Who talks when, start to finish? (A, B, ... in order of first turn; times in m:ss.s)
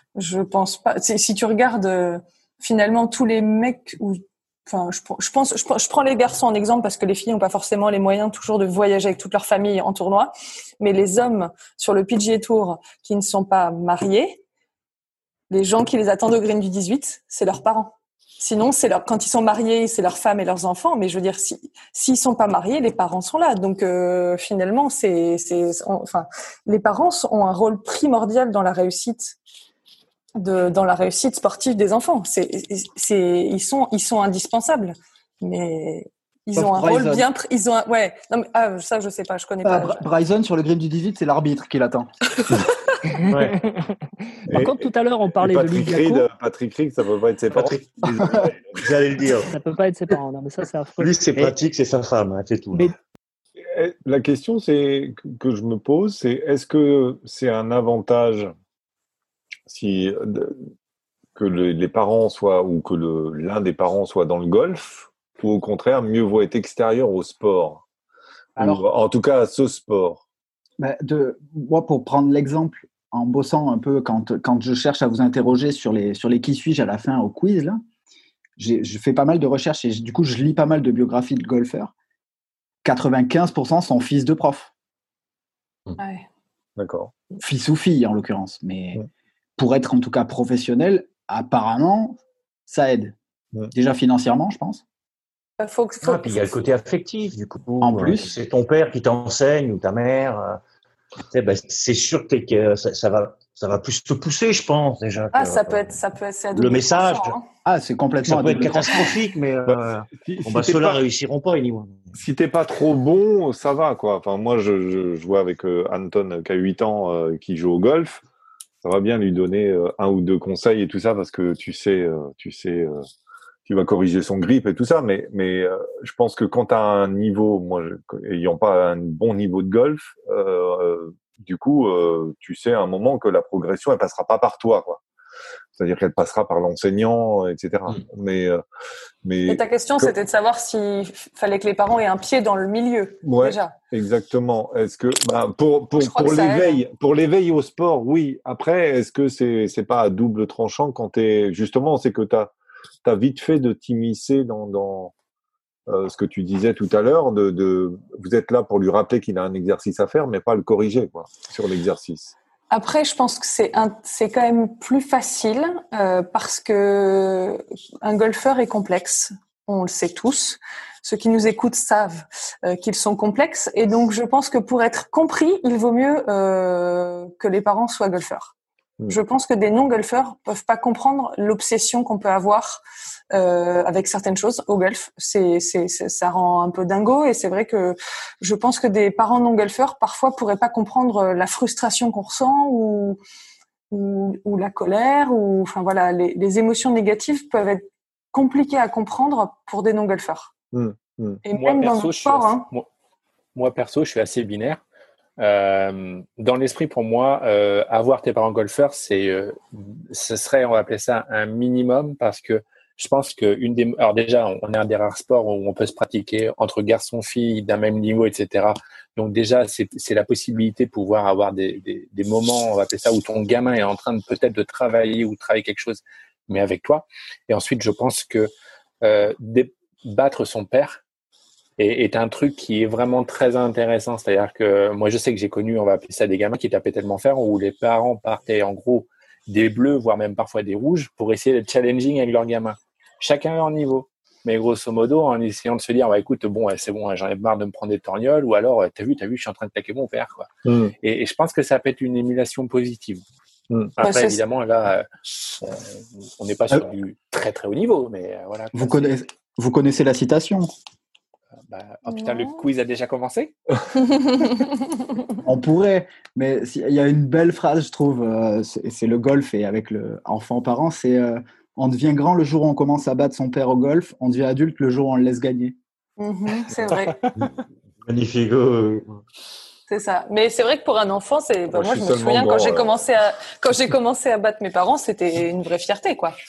0:00.2-0:14.4 A
0:15.5-0:29.4 A
0:30.4-0:40.0 A
0:36.6-0:37.3 B
0:39.6-0:42.1 B
0:43.2-0:46.3 C
0:43.3-0:43.6 D
0:44.5-0:44.8 D
0:45.4-0:48.6 D
0:47.5-0:49.5 E
0:49.5-0:51.5 C
0:51.0-0:52.9 E
0:53.6-0:58.5 D
0:59.7-1:00.6 D
1:01.4-1:07.8 D
1:08.6-1:10.2 D
1:08.6-1:08.8 B
1:10.8-1:17.8 B
1:18.6-1:21.9 B
1:22.8-1:24.7 B
1:26.0-1:26.3 A
1:26.8-1:27.1 D
1:27.4-1:29.0 B
1:29.6-1:33.2 B
1:33.7-1:34.8 B
1:35.6-1:36.7 A
1:36.0-1:40.6 E
1:37.8-1:38.3 B
1:41.3-1:46.0 E
1:45.3-1:47.4 A
1:46.5-1:47.4 E
1:47.6-1:49.0 B
1:48.2-1:52.1 E
1:49.7-1:51.0 D
1:52.2-1:58.2 D
1:58.8-2:03.0 D
2:03.7-2:15.0 D
2:15.8-2:18.6 D
2:19.2-2:20.2 D
2:19.5-2:23.7 A
2:23.2-2:32.5 D
2:26.0-2:26.8 A
2:33.0-2:35.1 D
2:35.9-2:42.3 D
2:42.7-2:58.5 A
2:59.1-3:02.8 A
3:03.3-3:13.2 A
3:13.9-3:20.5 A
3:20.7-3:21.4 D
3:21.4-3:22.7 A
3:21.5-3:22.9 F
3:23.6-3:24.8 F
3:25.4-3:51.0 F
3:51.8-4:10.5 F
4:10.6-4:10.9 D
4:11.0-4:13.2 F
4:14.0-4:19.2 F
4:14.0-4:14.4 A
4:18.7-4:20.7 B
4:21.6-4:23.5 F
4:22.1-4:22.6 A
4:24.0-4:25.4 A
4:25.4-4:35.8 B
4:36.2-4:37.2 A
4:37.4-4:39.2 E
4:39.9-4:46.4 A
4:41.7-4:43.0 D